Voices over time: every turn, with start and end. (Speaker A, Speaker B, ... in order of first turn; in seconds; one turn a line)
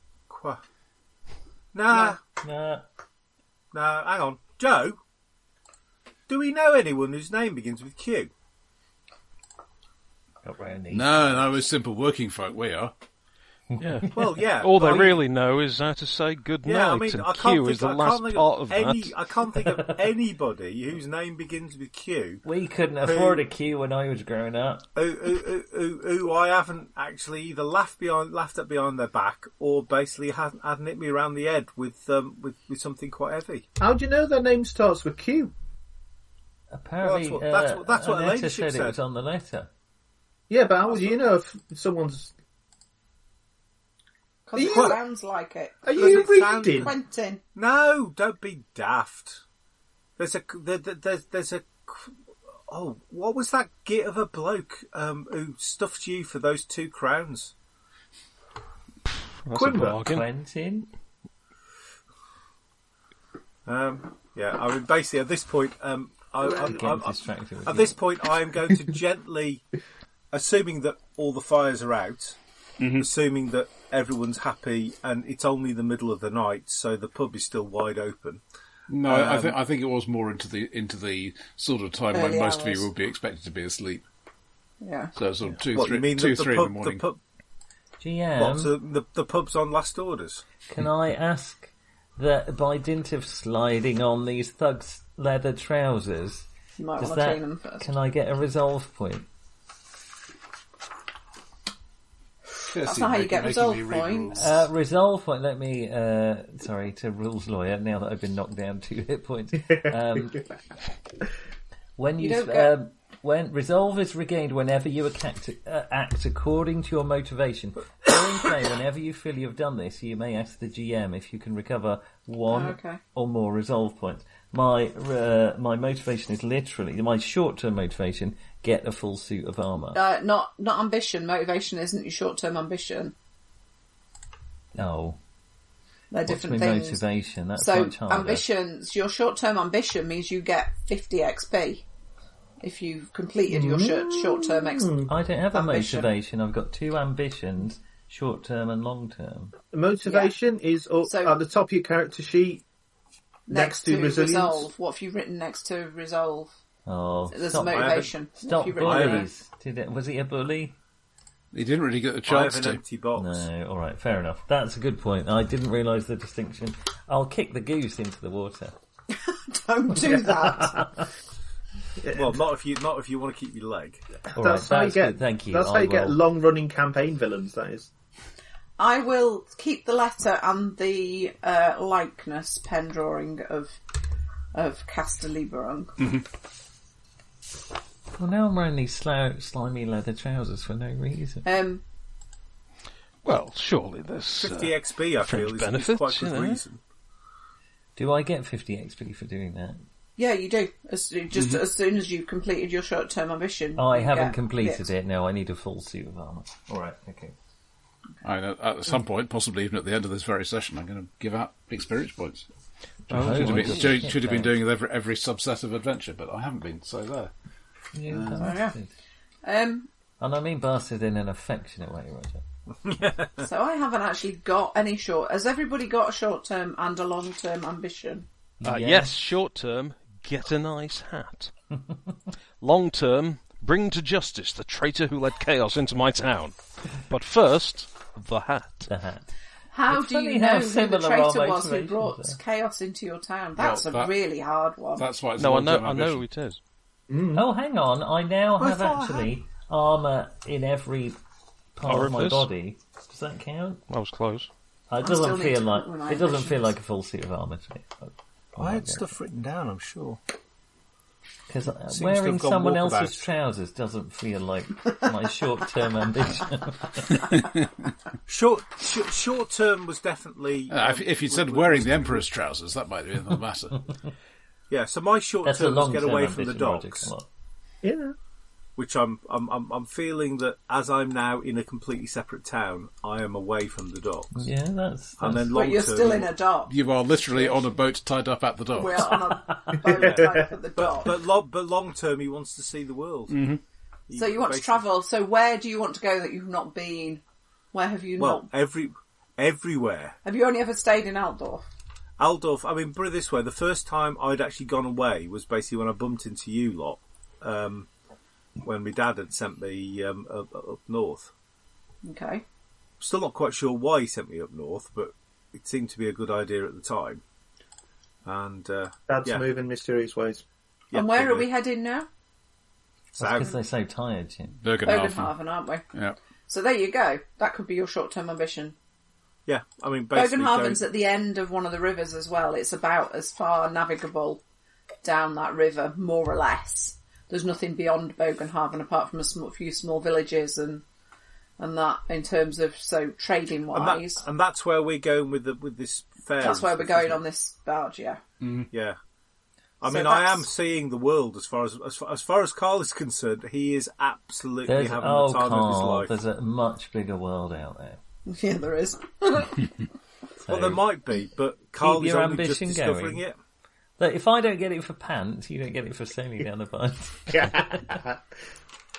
Speaker A: 0.3-0.6
Speaker A: 1.7-2.2
Speaker B: 1.9-2.9
Speaker A: 3.7-5.0
Speaker A: 6.3-8.3
Speaker B: 10.4-11.5
Speaker C: 10.9-12.9
Speaker B: 13.7-14.2
Speaker D: 13.8-19.2
Speaker A: 14.1-15.2
Speaker A: 16.6-22.4
Speaker B: 19.6-19.9
Speaker B: 22.4-24.9
Speaker A: 23.0-23.4
Speaker A: 25.0-33.6
Speaker E: 33.8-35.5
Speaker B: 36.7-39.7
Speaker A: 37.0-39.0
Speaker E: 40.5-42.3
Speaker F: 44.5-47.4
Speaker E: 44.6-45.0
Speaker A: 44.6-45.0
Speaker E: 45.8-46.9
Speaker A: 45.9-47.0
Speaker A: 47.5-49.4
Speaker A: 50.2-52.1
Speaker A: 52.7-57.5
Speaker D: 59.4-60.3
Speaker E: 59.5-60.0
Speaker B: 59.7-60.9
Speaker A: 63.7-69.6
Speaker B: 66.4-68.0
Speaker A: 70.3-72.4
Speaker C: 72.8-73.1
Speaker A: 73.0-78.4
Speaker C: 78.9-84.0
Speaker A: 79.0-79.6
Speaker F: 82.1-82.9
Speaker F: 84.8-85.1
Speaker C: 85.2-87.0
Speaker A: 85.7-87.2
Speaker B: 88.0-88.7
Speaker A: 88.4-90.4
Speaker B: 90.7-96.5
Speaker F: 96.8-97.9
Speaker B: 97.0-99.3
Speaker C: 102.6-104.6
Speaker F: 102.8-104.6
Speaker B: 104.3-110.5
Speaker B: 112.0-130.0
Speaker F: 112.2-112.7
Speaker F: 122.5-123.0
Speaker F: 129.9-133.1
Speaker B: 134.8-135.2
Speaker F: 136.1-137.0
Speaker B: 136.2-138.4
Speaker F: 137.6-141.8
Speaker F: 142.6-146.1
Speaker E: 143.5-145.1
Speaker B: 145.1-149.6
Speaker E: 149.7-152.6
Speaker F: 150.1-150.3
Speaker F: 151.0-151.4
Speaker F: 153.5-156.5
Speaker E: 153.5-154.7
Speaker B: 156.9-160.8
Speaker F: 157.3-159.3
Speaker A: 157.7-158.1
Speaker A: 158.8-159.2
Speaker C: 161.5-162.8
Speaker A: 162.3-163.5
Speaker B: 163.2-168.8
Speaker F: 169.1-170.9
Speaker B: 170.0-171.0
Speaker E: 172.0-172.4
Speaker A: 172.1-174.0
Speaker E: 174.3-177.9
Speaker B: 174.3-176.2
Speaker F: 178.8-183.8
Speaker F: 184.5-185.9
Speaker C: 186.0-186.2
Speaker B: 188.2-191.5
Speaker F: 191.4-191.8
Speaker D: 193.2-196.6
Speaker A: 194.4-196.8
Speaker B: 198.0-199.8
Speaker F: 200.2-204.9
Speaker C: 201.3-201.6
Speaker B: 203.8-207.3
Speaker C: 208.2-212.5
Speaker B: 213.1-214.6
Speaker D: 213.1-214.1
Speaker C: 213.1-217.3
Speaker B: 217.9-218.9
Speaker C: 218.1-218.5
Speaker F: 218.4-218.8
Speaker F: 219.4-219.9
Speaker B: 220.2-222.4
Speaker A: 222.8-223.4
Speaker F: 223.4-228.3
Speaker B: 228.6-229.2
Speaker D: 228.6-231.5
Speaker D: 232.6-238.9
Speaker B: 238.9-239.3
Speaker F: 239.7-245.1
Speaker B: 239.9-242.4
Speaker C: 243.6-244.2
Speaker C: 245.0-246.2
Speaker D: 245.4-246.6
Speaker E: 247.1-247.5
Speaker B: 247.3-251.2
Speaker A: 248.6-249.3
Speaker B: 251.8-253.8
Speaker D: 251.9-252.5
Speaker D: 253.9-254.5
Speaker B: 254.9-259.1
Speaker F: 255.0-256.7
Speaker A: 258.6-260.2
Speaker B: 261.5-267.3
Speaker A: 261.9-263.2
Speaker C: 267.4-267.7
Speaker A: 268.3-272.2
Speaker C: 270.7-273.9
Speaker A: 274.7-277.1
Speaker B: 275.4-277.3
Speaker E: 277.8-278.1
Speaker A: 278.8-284.5
Speaker B: 284.4-285.5
Speaker A: 285.2-286.3
Speaker F: 285.5-286.7
Speaker C: 286.7-289.2
Speaker F: 288.7-291.2
Speaker B: 289.1-289.9
Speaker E: 289.8-290.5
Speaker A: 290.0-293.4
Speaker C: 293.3-293.6
Speaker A: 294.1-294.8
Speaker F: 294.1-298.5
Speaker A: 298.2-300.2
Speaker F: 300.2-301.6
Speaker A: 302.2-307.9
Speaker A: 308.6-311.3
Speaker F: 312.0-312.4
Speaker A: 313.0-317.2
Speaker A: 318.2-319.4
Speaker E: 319.1-320.4
Speaker A: 320.9-321.5
Speaker F: 320.9-322.1
Speaker A: 323.2-323.6
Speaker B: 323.2-324.6
Speaker C: 324.6-325.4
Speaker F: 324.8-325.9
Speaker F: 326.5-328.8
Speaker A: 329.5-330.8
Speaker F: 330.1-334.4
Speaker F: 335.0-340.8
Speaker F: 341.6-344.2
Speaker A: 343.7-347.2
Speaker F: 346.4-348.2
Speaker C: 348.4-348.7
Speaker A: 348.7-349.0
Speaker A: 349.8-356.2
Speaker F: 349.9-350.5
Speaker B: 354.6-358.0
Speaker F: 358.3-359.6
Speaker B: 360.5-360.9
Speaker A: 360.5-363.4
Speaker B: 361.8-363.2
Speaker B: 364.0-368.0
Speaker E: 367.3-368.2